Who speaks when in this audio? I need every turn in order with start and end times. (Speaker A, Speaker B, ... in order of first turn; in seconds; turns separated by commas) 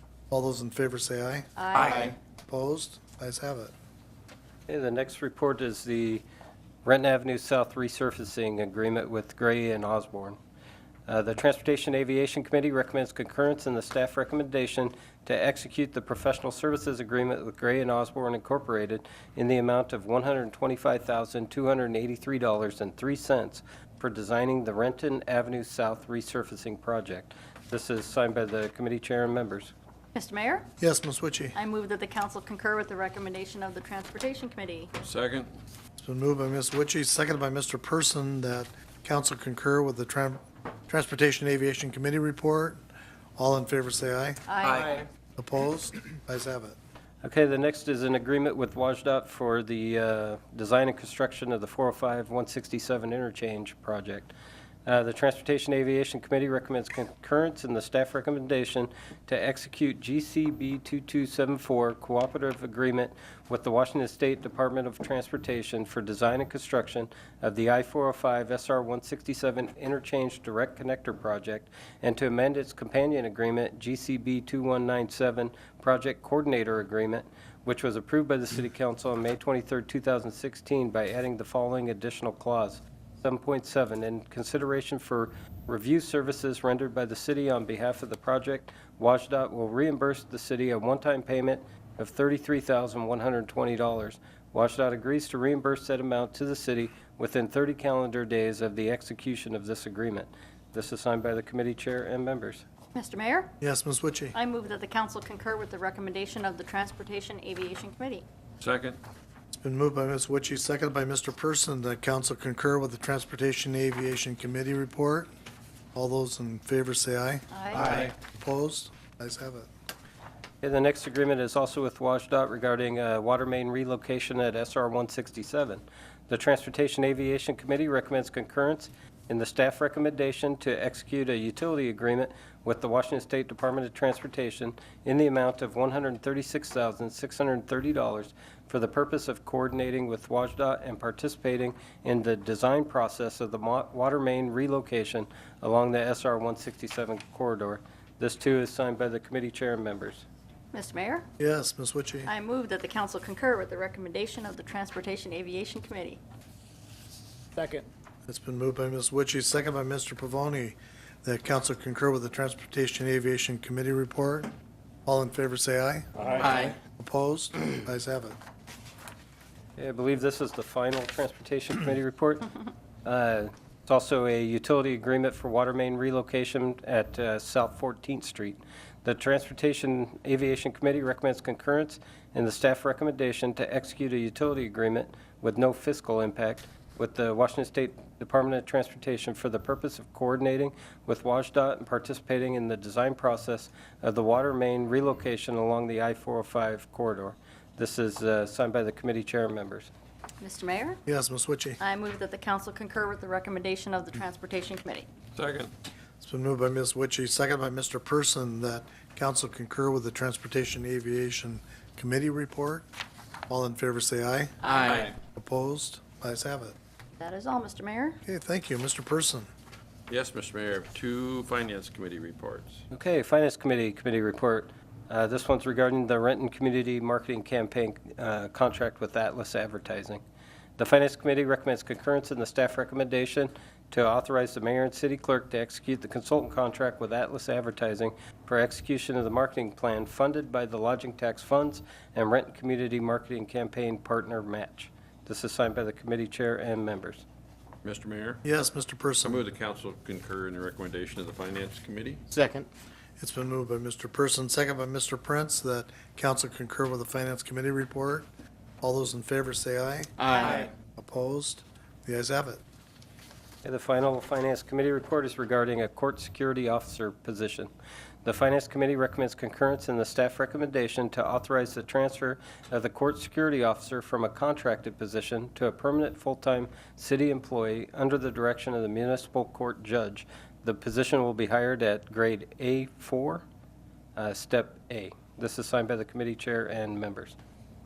Speaker A: 0.3-3.7, Speaker B: 1.6-2.1, Speaker C: 1.8-2.1, Speaker D: 4.7-6.2, Speaker D: 6.8-10.4, Speaker D: 11.1-29.7, Speaker B: 30.1-30.7, Speaker A: 30.8-31.6, Speaker B: 31.5-34.9, Speaker E: 35.0-35.5, Speaker A: 36.0-42.8, Speaker A: 43.4-44.4, Speaker B: 44.5-45.0, Speaker E: 44.7-45.0, Speaker A: 45.4-46.8, Speaker D: 47.2-54.3, Speaker D: 54.9-102.6, Speaker B: 103.0-103.5, Speaker A: 103.6-104.3, Speaker B: 104.3-108.2, Speaker E: 108.6-109.0, Speaker A: 109.5-115.3, Speaker A: 116.0-119.7, Speaker B: 117.5-117.9, Speaker D: 120.6-150.3, Speaker B: 150.7-151.3, Speaker A: 151.4-152.3, Speaker B: 152.3-156.2, Speaker C: 157.6-157.8, Speaker A: 158.3-164.5, Speaker A: 165.1-168.4, Speaker C: 166.3-166.8, Speaker D: 169.8-172.5, Speaker D: 173.1-199.9, Speaker B: 200.4-201.0, Speaker A: 201.1-201.8, Speaker B: 201.8-205.1, Speaker E: 205.3-205.7, Speaker A: 206.2-212.9, Speaker A: 213.5-214.7, Speaker C: 214.6-215.1, Speaker E: 214.8-215.1, Speaker A: 215.3-216.8, Speaker B: 217.2-218.2, Speaker A: 218.2-219.5, Speaker E: 220.1-222.8, Speaker D: 222.9-230.2, Speaker D: 230.8-247.2, Speaker E: 247.8-248.4, Speaker A: 248.4-249.4, Speaker E: 249.2-252.2, Speaker C: 252.3-252.7, Speaker A: 253.2-258.3, Speaker A: 258.8-260.1, Speaker C: 260.2-260.7, Speaker A: 261.0-262.6, Speaker D: 263.6-267.7, Speaker D: 268.2-283.4, Speaker D: 284.2-287.4